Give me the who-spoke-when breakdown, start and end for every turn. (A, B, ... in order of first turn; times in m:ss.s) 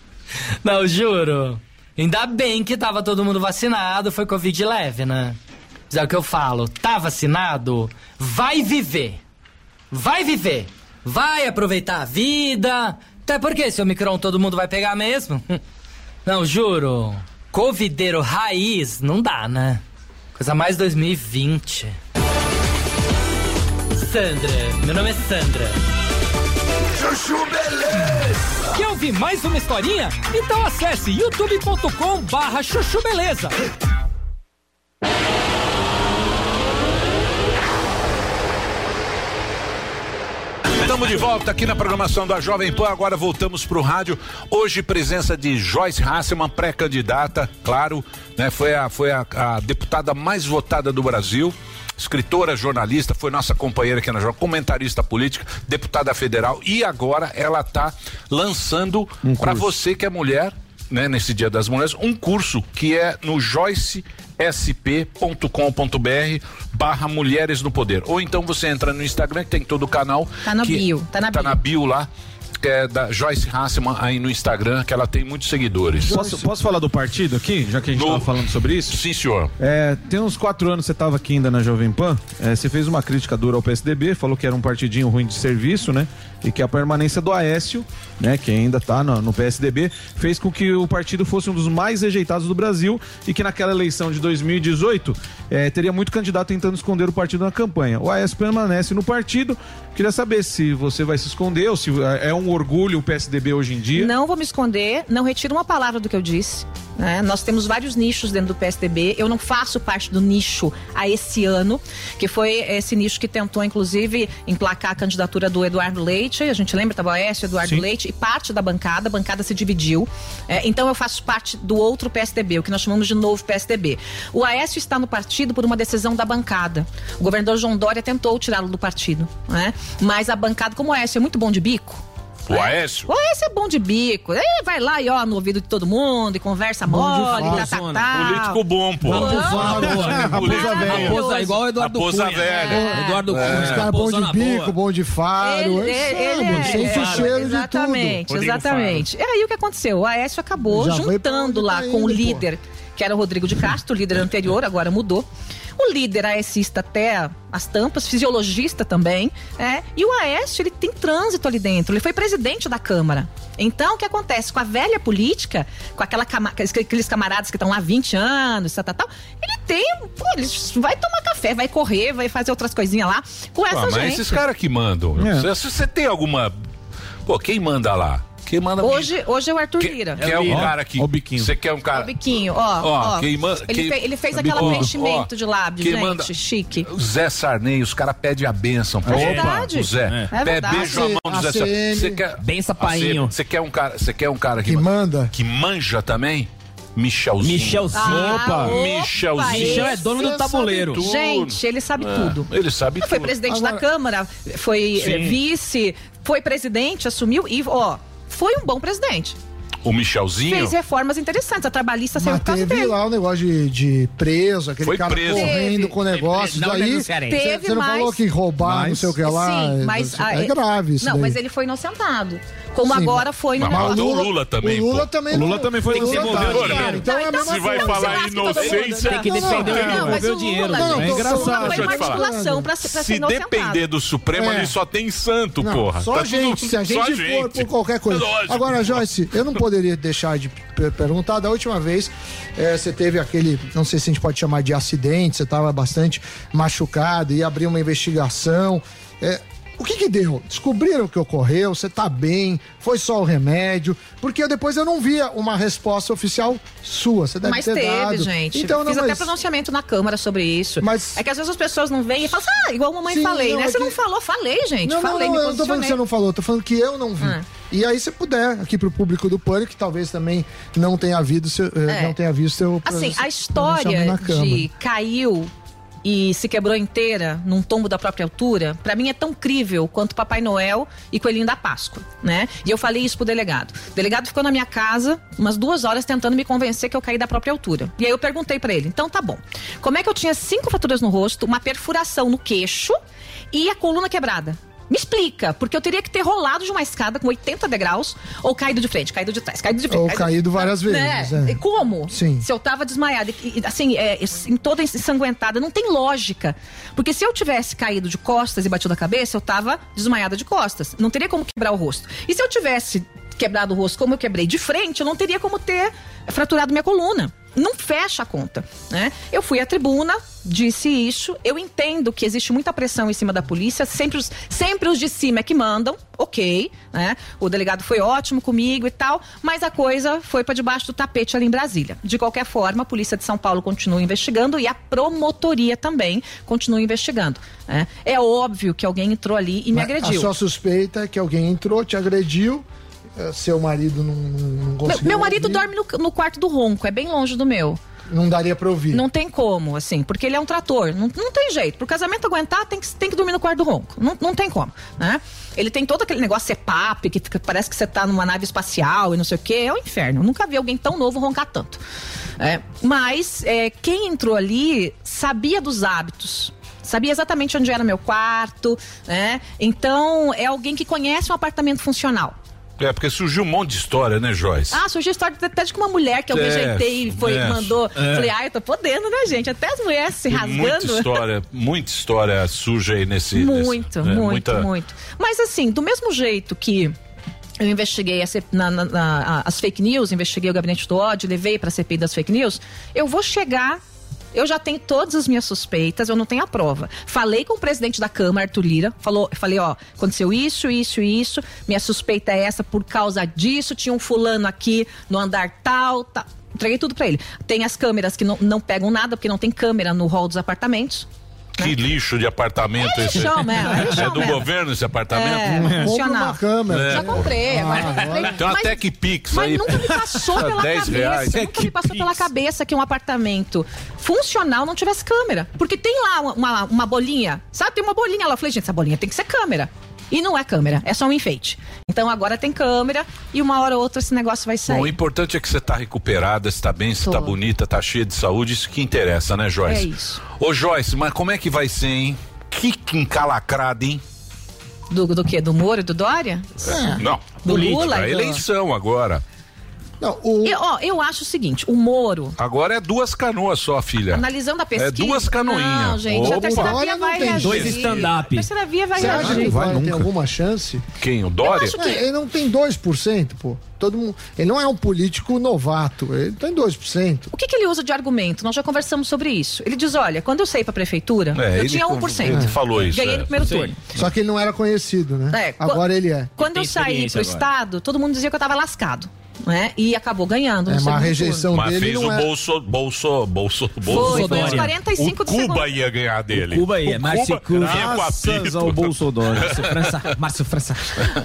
0:00.6-0:05.4 A
0:05.9-0:09.2 A
0:09.9-0:15.6 A
0:16.2-0:19.8 A
0:20.4-0:22.0 A
0:23.9-0:25.8 A
0:28.7-0:33.5 A
0:40.8-1:12.1 B
0:59.2-0:59.7 C
1:10.4-1:11.6 D
1:12.6-1:16.2 B
1:16.0-1:19.0 C
1:16.1-1:16.4 E
1:17.9-1:19.5 B
1:19.6-1:44.1 C
1:43.9-2:19.8 D
2:12.5-2:13.1 B
2:16.9-2:17.7 E
2:16.9-2:18.1 F
2:18.1-2:23.9 B
2:19.1-2:24.7 F
2:19.1-2:21.2 E
2:20.4-2:21.6 D
2:22.5-2:23.2 D
2:22.7-2:28.2 E
2:25.4-2:35.2 D
2:26.5-2:27.4 F
2:28.4-2:29.0 F
2:30.7-2:32.4 E
2:35.8-2:54.4 D
2:53.7-2:56.6 B
2:55.2-2:55.5 C
2:57.2-2:59.1 B
2:58.8-3:00.2 D
2:59.8-3:02.2 B
3:00.2-3:00.7 F
3:00.4-3:01.5 C
3:01.9-3:06.9 D
3:02.8-3:06.3 B
3:06.8-3:23.3 B
3:09.0-3:10.3 F
3:09.1-3:11.0 D
3:10.7-3:12.2 E
3:12.4-3:13.3 F
3:14.6-3:15.3 E
3:17.4-3:18.8 F
3:17.9-3:20.2 D
3:19.4-3:21.0 F
3:21.0-3:29.4 D
3:23.4-3:23.8 E
3:29.8-3:30.7 B
3:30.4-3:32.9 D
3:32.2-3:41.4 E
3:34.8-3:35.6 B
3:35.3-3:35.9 D
3:36.1-3:37.5 F
3:37.2-3:38.2 D
3:38.7-3:39.0 C
3:38.7-3:39.0 F
3:39.2-3:44.3 D
3:42.8-3:52.7 E
3:43.6-3:45.2 B
3:45.3-3:46.8 C
3:45.9-3:46.6 F
3:46.2-3:50.1 B
3:46.8-3:53.9 D
3:48.7-3:51.4 F
3:50.9-3:51.5 C
3:51.3-3:52.3 B
3:52.8-3:59.0 B
3:54.3-3:54.8 E
3:55.6-4:19.3 E
4:17.4-4:26.0 D
4:20.8-4:21.2 E
4:23.0-4:24.0 E
4:24.8-4:34.7 E
4:31.9-4:32.2 D
4:32.8-4:35.5 D
4:36.0-4:53.0 D
4:53.5-5:40.3 D
4:59.9-5:02.4 E
5:39.7-5:42.6 E
5:43.2-5:45.7 E
5:44.8-5:47.8 D
5:48.1-5:49.0 E
5:48.9-6:01.8 D
6:02.4-6:12.4 D
6:12.8-6:14.8 B
6:14.7-6:21.2 D
6:16.3-6:18.3 B
6:20.3-6:24.7 B
6:23.3-6:26.9 D
6:27.6-6:33.8 D
6:34.3-6:51.1 D
6:51.6-6:55.8 B
6:52.8-6:54.5 D
6:55.1-7:15.0 D
6:55.7-6:58.5 E
6:56.7-6:57.4 B
6:58.3-7:02.0 B
7:14.6-7:24.0 B
7:17.0-7:17.3 D
7:19.6-7:20.2 D
7:24.9-7:26.8 D
7:26.6-7:29.2 B
7:26.7-7:27.0 E
7:27.4-7:28.4 D
7:30.0-7:30.6 E
7:30.4-7:32.4 D
7:32.4-7:36.8 B
7:34.1-7:39.6 D
7:36.1-7:37.9 E
7:37.4-7:38.5 F
7:37.7-7:38.1 B
7:39.0-7:40.8 E
7:39.0-7:40.1 C
7:41.0-7:41.8 B
7:41.4-7:42.0 D
7:41.7-7:47.3 E
7:47.3-7:53.8 D
7:51.3-7:53.3 B
7:52.3-7:52.6 E
7:53.4-7:53.7 F
7:53.9-7:56.4 E
7:55.3-7:55.8 D
7:56.4-7:57.4 F
7:56.4-8:01.5 D
8:00.7-8:02.3 E
8:01.5-8:09.6 B
8:03.9-8:05.8 D
8:03.9-8:04.7 F
8:06.3-8:11.0 F
8:07.6-8:08.8 C